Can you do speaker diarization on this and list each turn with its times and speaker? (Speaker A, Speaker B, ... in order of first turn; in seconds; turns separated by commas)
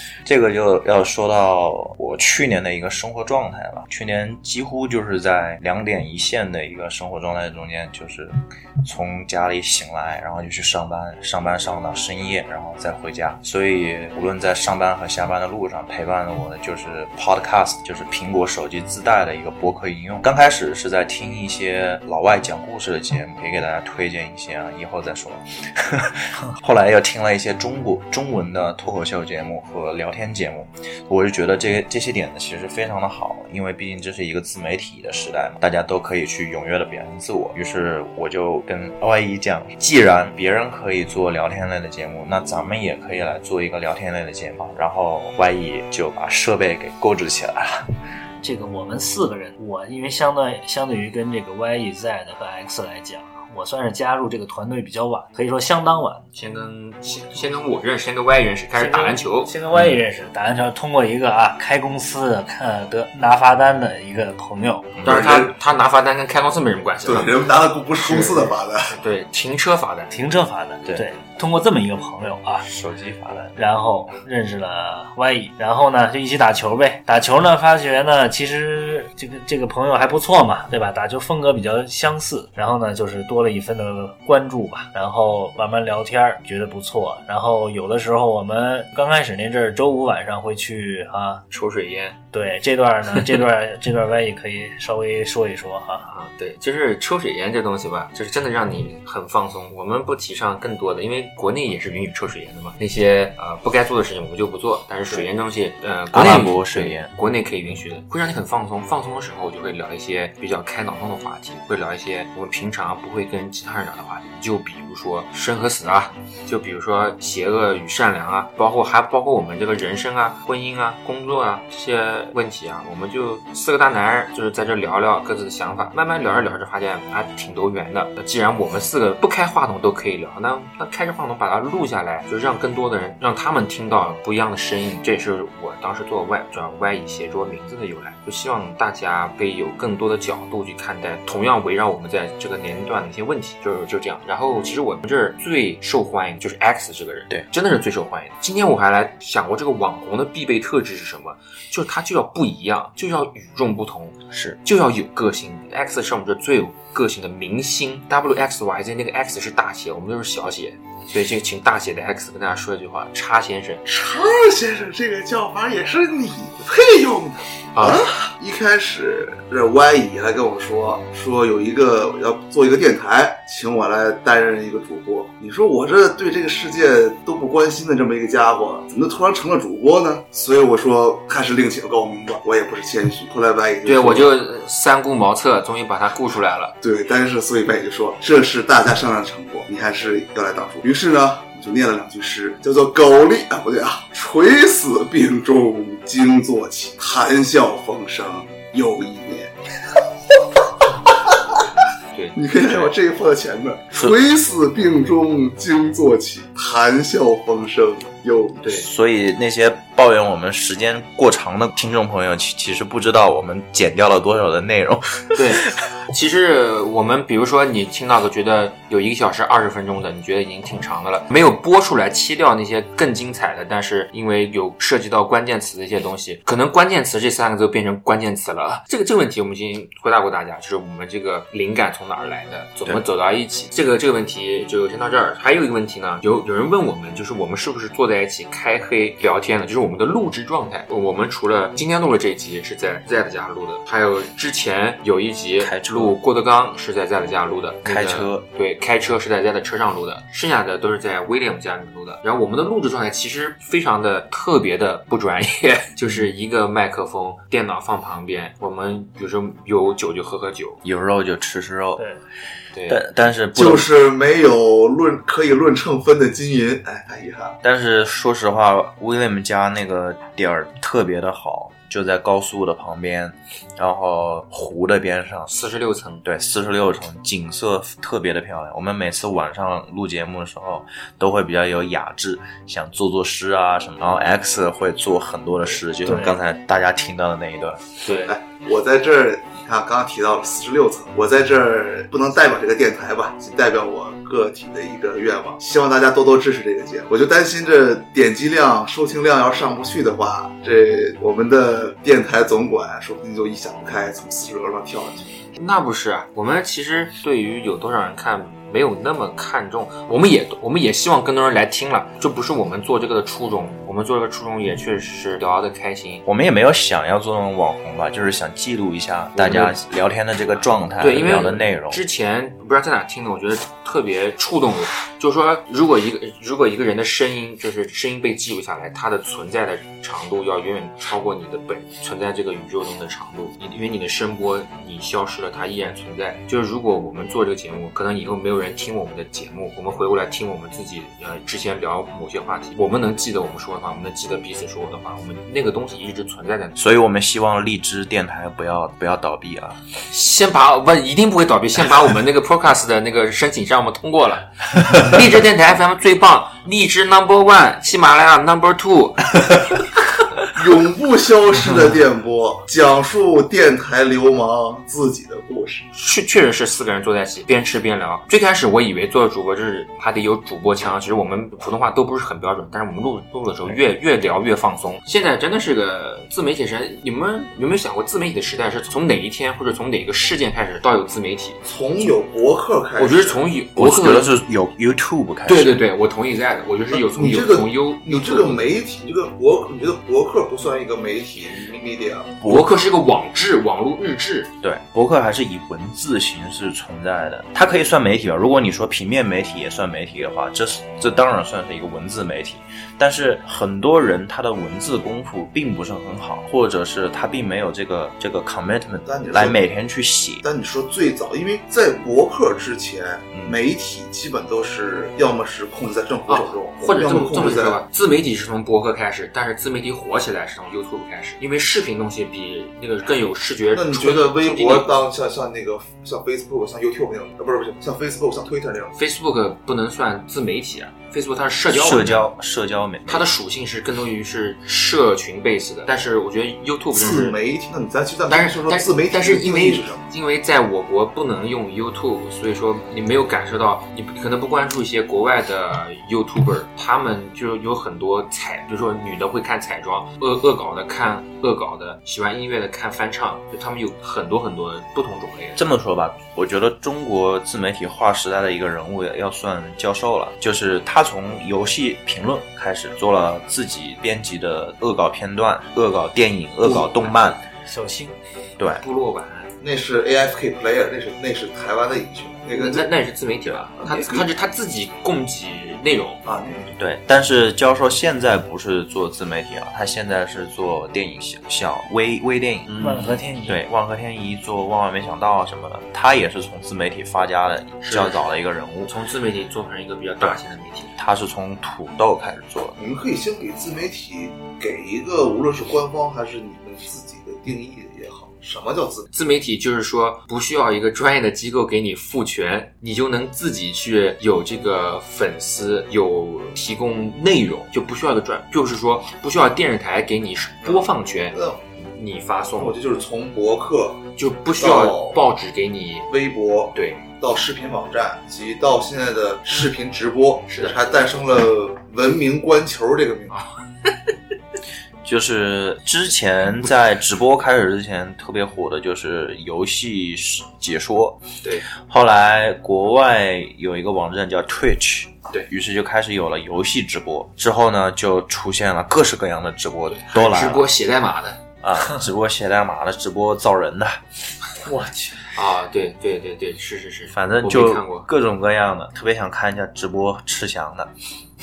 Speaker A: 0.2-47.9, Speaker B: 48.4-56.2, Speaker C: 56.3-59.5, Speaker B: 58.8-64.9, Speaker A: 59.7-60.0, Speaker A: 64.9-65.2, Speaker D: 65.0-65.5, Speaker C: 65.0-67.3, Speaker D: 67.0-69.0, Speaker C: 68.0-70.1, Speaker B: 70.1-72.7, Speaker A: 72.6-73.5, Speaker B: 73.5-91.4, Speaker C: 91.5-92.2, Speaker B: 92.3-96.1, Speaker C: 93.1-93.4, Speaker C: 96.1-163.8, Speaker A: 106.1-107.1, Speaker A: 154.3-154.6, Speaker D: 163.8-184.4, Speaker C: 167.7-168.1, Speaker C: 183.8-186.7, Speaker D: 186.8-199.5, Speaker D: 200.6-201.6, Speaker C: 202.1-202.9, Speaker D: 202.3-208.6, Speaker A: 208.7-215.4, Speaker C: 215.3-260.8, Speaker A: 245.6-246.2, Speaker A: 247.8-248.4, Speaker A: 260.8-262.0, Speaker C: 262.7-263.0, Speaker A: 262.9-263.9, Speaker D: 263.5-267.5, Speaker A: 267.6-275.6, Speaker C: 275.5-276.2, Speaker A: 276.2-287.8, Speaker B: 286.0-286.4, Speaker C: 288.0-288.4, Speaker D: 288.2-305.3, Speaker C: 305.5-316.2, Speaker A: 316.2-322.0, Speaker C: 319.4-319.7, Speaker C: 321.0-346.8, Speaker A: 346.8-349.8, Speaker C: 350.1-359.5, Speaker D: 360.5-365.9, Speaker C: 365.9-381.6, Speaker D: 381.6-383.4, Speaker C: 383.0-384.4, Speaker A: 383.8-385.8, Speaker C: 385.4-388.7, Speaker D: 386.9-392.4, Speaker A: 392.4-392.7, Speaker C: 392.4-394.5, Speaker A: 394.6-410.4, Speaker D: 409.0-409.6, Speaker D: 410.4-417.8, Speaker A: 413.3-413.6, Speaker C: 416.3-425.0, Speaker D: 423.7-429.0, Speaker C: 428.9-432.3, Speaker A: 431.7-433.3, Speaker C: 433.1-437.4, Speaker D: 436.9-440.0, Speaker C: 438.3-455.6, Speaker A: 455.6-467.4, Speaker B: 466.6-468.2, Speaker A: 468.6-468.8, Speaker C: 468.8-469.5, Speaker D: 469.6-472.9, Speaker C: 472.5-476.2, Speaker D: 473.8-474.3, Speaker D: 476.2-476.7, Speaker A: 476.8-482.7, Speaker C: 482.7-483.1, Speaker B: 482.8-483.6, Speaker A: 483.4-488.9, Speaker C: 487.8-488.2, Speaker C: 488.9-490.9, Speaker A: 491.0-492.8, Speaker D: 492.8-499.1, Speaker C: 499.1-512.8, Speaker D: 510.6-511.6, Speaker D: 512.6-514.0, Speaker C: 514.2-516.1, Speaker D: 514.6-515.2, Speaker D: 516.1-523.4, Speaker C: 516.7-517.0, Speaker C: 520.5-520.7, Speaker C: 523.3-524.1, Speaker A: 525.0-540.7, Speaker C: 539.9-541.4, Speaker A: 541.6-544.0, Speaker B: 544.7-545.2, Speaker C: 545.3-548.0, Speaker A: 547.1-550.9